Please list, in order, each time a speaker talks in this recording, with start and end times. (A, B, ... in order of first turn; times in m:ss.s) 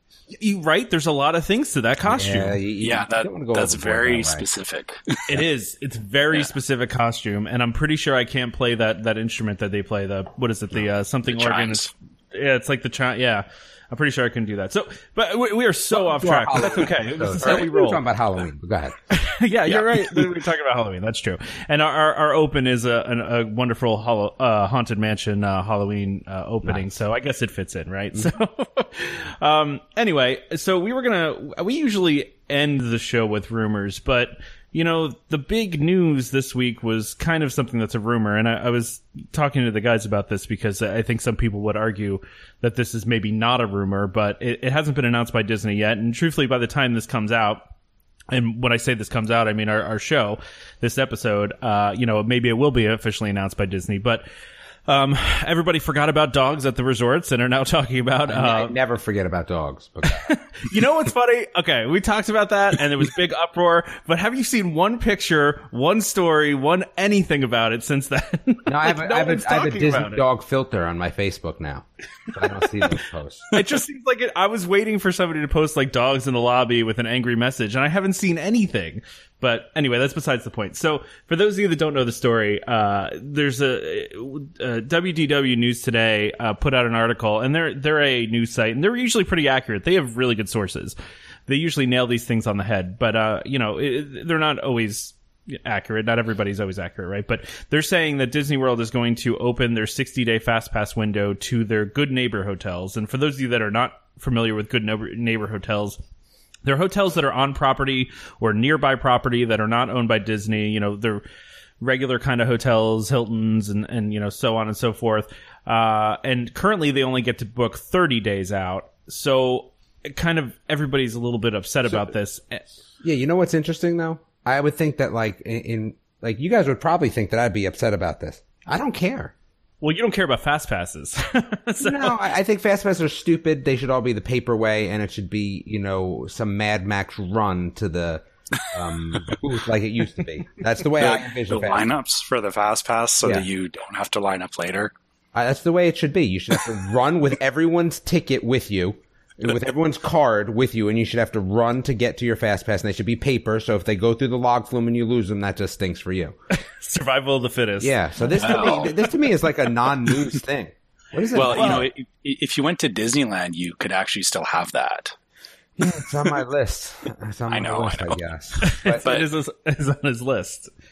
0:00.4-0:02.6 A
0:02.0-0:04.5 B
0:02.8-0:05.4 C
0:05.3-0:18.0 A
0:11.3-0:11.9 C
0:15.9-0:18.9 B
0:19.1-0:47.7 A
0:19.7-0:20.2 C
0:26.6-0:26.9 B
0:48.3-0:54.2 A
0:54.9-0:58.7 A
0:58.3-1:00.4 B
1:00.1-1:10.2 A
1:08.6-1:13.4 B
1:13.5-1:31.0 A
1:31.5-1:46.0 A
1:46.6-1:51.2 A
1:51.8-2:02.6 A
2:03.0-2:09.3 B
2:09.8-2:12.1 A
2:11.8-2:21.8 B
2:21.0-2:24.9 C
2:25.3-2:36.4 B
2:36.5-2:39.0 A
2:37.8-2:41.9 B
2:38.4-2:38.9 C
2:41.3-2:45.1 C
2:41.5-2:41.8 A
2:45.8-2:49.1 B
2:47.5-2:48.2 C
2:48.6-2:50.7 A
2:49.0-2:49.3 C